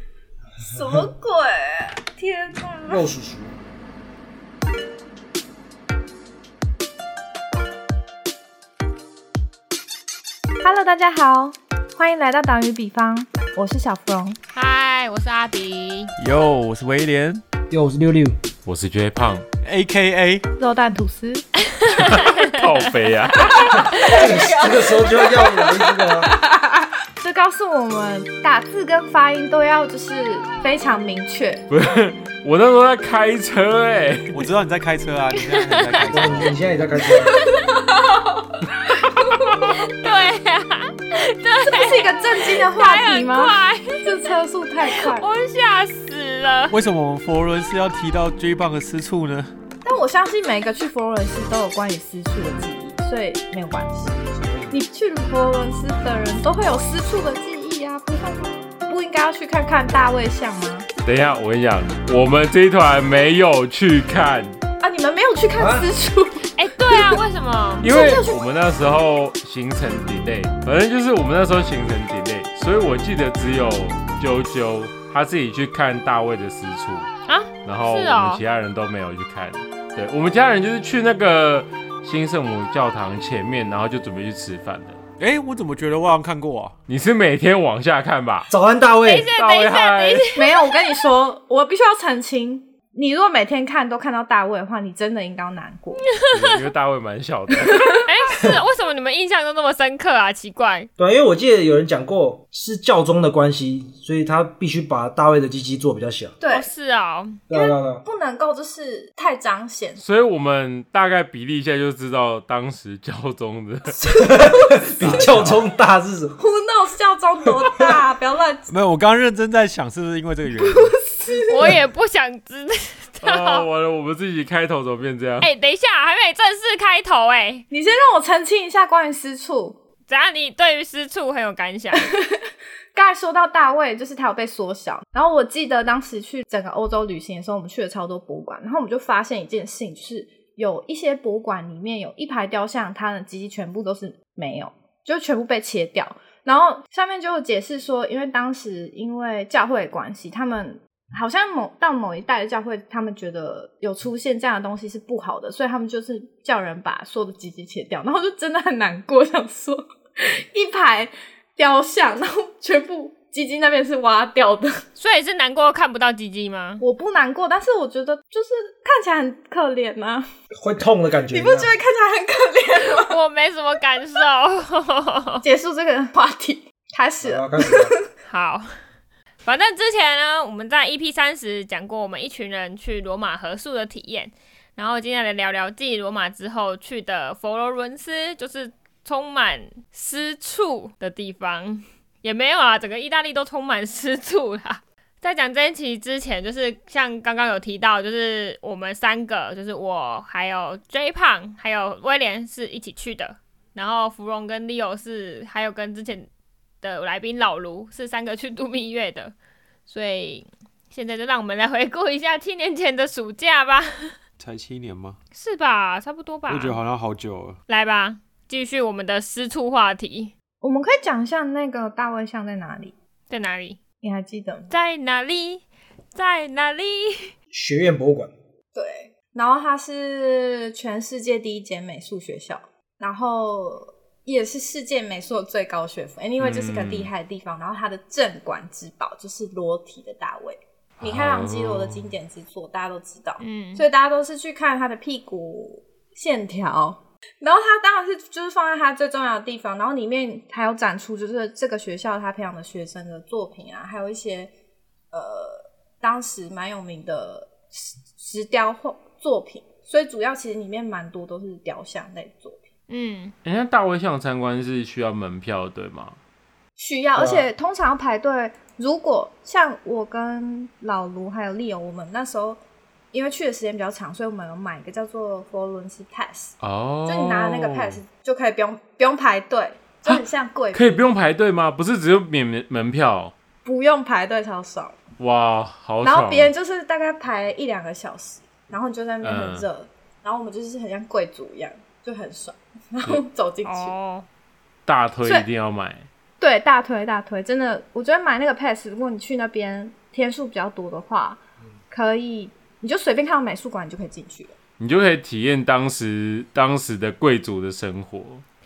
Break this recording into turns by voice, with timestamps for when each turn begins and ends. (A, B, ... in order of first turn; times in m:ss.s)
0:00.6-0:03.1 A
0:02.8-0:03.6 B
0:10.6-0:14.4 A
0:14.5-0:16.1 C
0:16.2-0:17.4 D
0:17.7-0:18.4 B
0:18.6-0:19.4 E
0:19.6-0:20.5 D
0:20.6-0:21.5 A
0:21.7-0:22.6 C
0:22.1-0:23.8 E
0:23.4-0:31.7 A
0:23.4-0:24.5 C
0:23.8-0:26.3 B
0:31.7-0:34.4 E
0:34.3-0:36.6 D
0:35.4-0:36.3 C
0:36.0-0:37.4 B
0:37.2-0:39.8 A
0:37.2-0:37.7 C
0:39.6-0:44.3 C
0:41.6-0:45.3 A
0:44.9-0:46.8 C
0:46.7-0:49.5 D
0:49.8-1:00.9 A
0:54.3-0:54.8 B
1:01.0-1:04.6 E
1:04.8-1:07.2 A
1:05.6-1:05.9 B
1:06.6-1:07.9 C
1:07.8-1:08.4 A
1:07.8-1:17.1 E
1:17.3-1:18.4 C
1:17.6-1:25.0 E
1:25.2-1:26.8 D
1:26.9-1:28.5 E
1:28.5-1:29.3 B
1:29.0-1:30.8 C
1:29.4-1:30.3 E
1:30.4-1:36.0 A
1:36.1-1:36.6 C
1:36.3-1:38.0 E
1:37.7-1:38.0 A
1:38.1-1:40.9 C
1:38.3-1:38.6 B
1:41.0-1:46.3 B
1:46.4-1:46.7 A
1:46.5-1:47.4 C
1:47.5-1:48.0 B
1:47.5-1:50.0 A
1:50.0-1:54.0 E
1:54.0-1:56.4 B
1:54.4-1:55.3 A
1:55.3-1:55.5 D
1:56.4-1:58.7 A
1:57.6-1:58.0 B
1:58.7-2:01.0 D
2:00.6-2:01.7 A
2:01.5-2:03.7 C
2:03.2-2:05.5 E
2:05.4-2:07.7 C
2:07.7-2:09.8 A
2:10.1-2:12.1 C
2:12.0-2:12.4 A
2:12.9-2:44.8 A
2:45.0-2:46.8 C
2:46.8-2:50.3 A
2:50.6-2:51.7 B
2:51.3-2:53.2 A
2:52.9-2:55.4 C
2:55.4-2:58.1 A
2:57.2-2:57.9 B
2:58.3-2:58.7 C
2:59.4-3:26.3 C
3:26.8-3:29.4 C
3:29.9-3:34.2 C
3:34.4-3:35.2 D
3:35.4-3:36.8 C
3:36.5-3:37.6 D
3:37.7-3:40.3 C
3:40.6-3:42.9 A
3:43.3-3:43.8 C
3:44.0-3:44.7 A
3:44.7-3:47.3 C
3:47.5-3:48.3 B
3:48.8-4:14.5 A
3:56.4-3:57.1 E
4:01.0-4:02.1 E
4:03.4-4:03.8 C
4:15.1-4:22.6 A
4:22.9-4:23.3 C
4:23.4-4:26.2 E
4:26.8-4:32.6 A
4:27.2-4:27.5 B
4:33.1-4:36.6 A
4:36.6-4:38.0 E
4:37.1-4:41.0 A
4:40.0-4:43.3 E
4:43.6-4:45.0 A
4:45.2-4:46.5 E
4:46.0-4:53.9 A
4:49.2-4:49.7 E
4:53.6-4:54.3 C
4:54.9-4:56.1 E
4:56.4-5:04.5 A
5:04.8-5:08.4 E